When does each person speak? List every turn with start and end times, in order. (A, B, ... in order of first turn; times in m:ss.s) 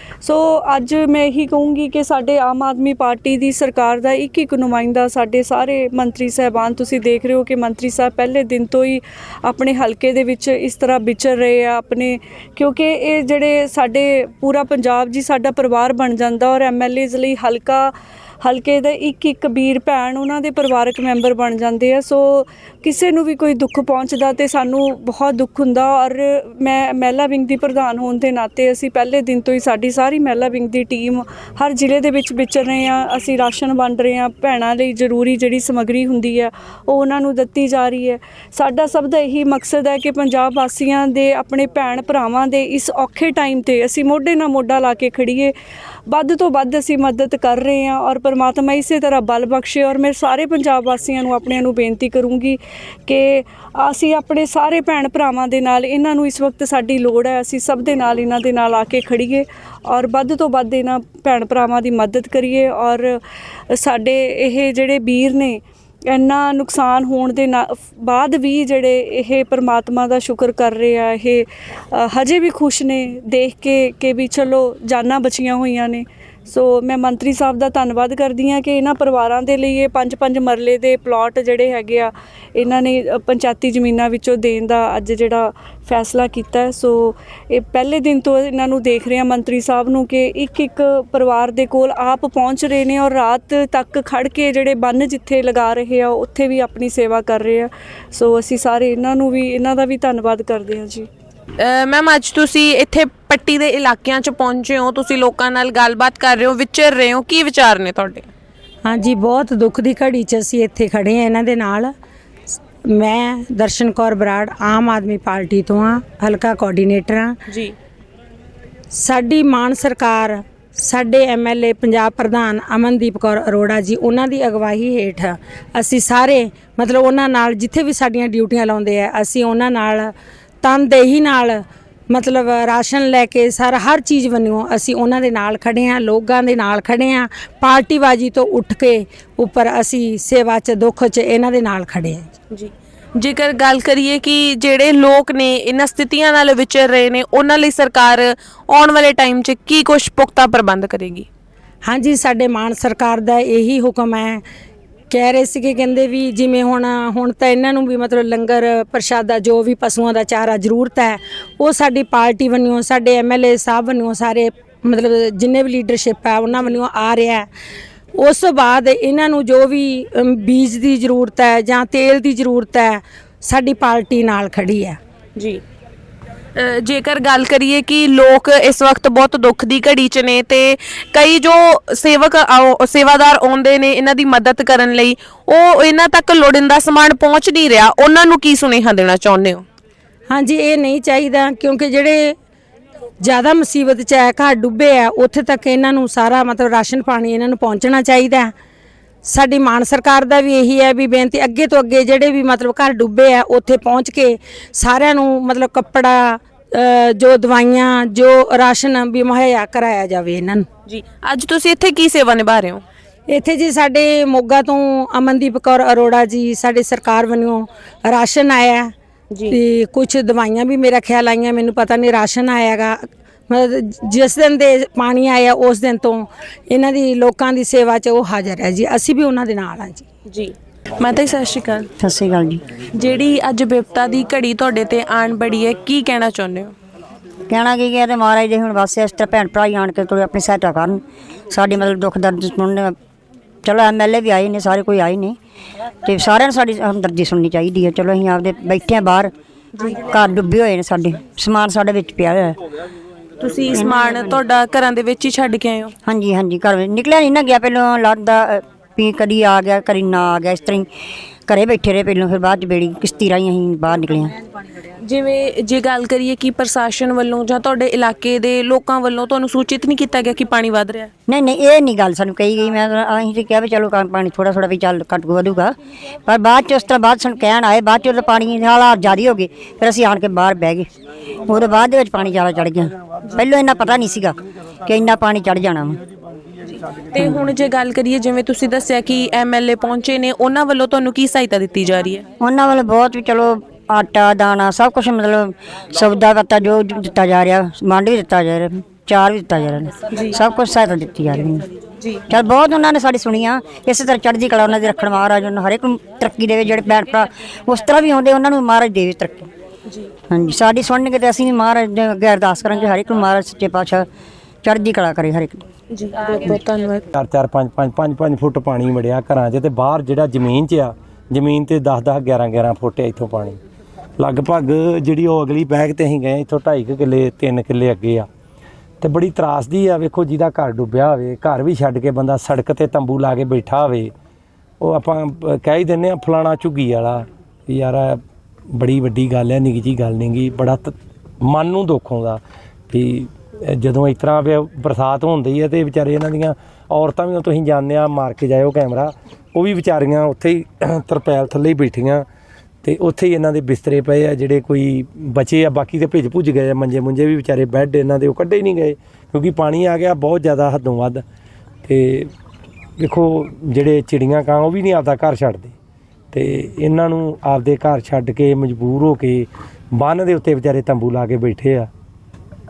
0:00.2-0:45.5 A
0:46.1-1:03.2 A
1:03.7-1:41.1 A
1:41.6-1:48.3 B
1:48.8-1:51.9 C
1:52.9-1:57.3 C
1:57.5-1:57.7 B
1:59.0-2:22.3 C
2:22.5-2:31.3 B
2:31.8-2:34.4 C
2:35.1-2:47.5 C
2:48.2-2:55.0 C
2:55.4-2:55.6 B
2:56.6-3:09.6 B
3:10.3-3:12.3 C
3:13.2-3:18.5 C
3:19.2-3:30.6 C
3:30.9-3:32.8 B
3:33.3-3:38.9 C
3:39.3-3:39.6 B
3:39.5-3:50.0 C
3:50.3-3:51.9 B
3:52.0-3:52.6 D
3:52.9-3:56.7 B
3:57.5-4:03.0 D
4:03.6-4:05.4 D
4:06.0-4:09.3 D
4:09.9-4:12.6 D
4:13.4-4:15.9 B
4:13.7-4:14.4 D
4:16.0-4:20.9 D
4:21.5-4:24.3 D
4:25.0-4:31.1 B
4:31.3-4:40.9 D
4:41.5-4:46.0 D
4:46.7-4:52.2 B
4:52.4-5:01.7 D
5:02.3-5:09.5 D
5:10.3-5:14.1 D
5:14.6-5:15.6 D
5:15.9-5:17.0 B
5:17.1-5:23.6 E
5:24.2-5:28.3 E
5:29.0-5:34.1 E
5:34.8-5:38.2 E
5:38.7-5:52.2 E
5:52.8-6:01.2 E
6:01.8-6:02.3 E
6:03.0-6:05.7 E
6:06.3-6:11.9 E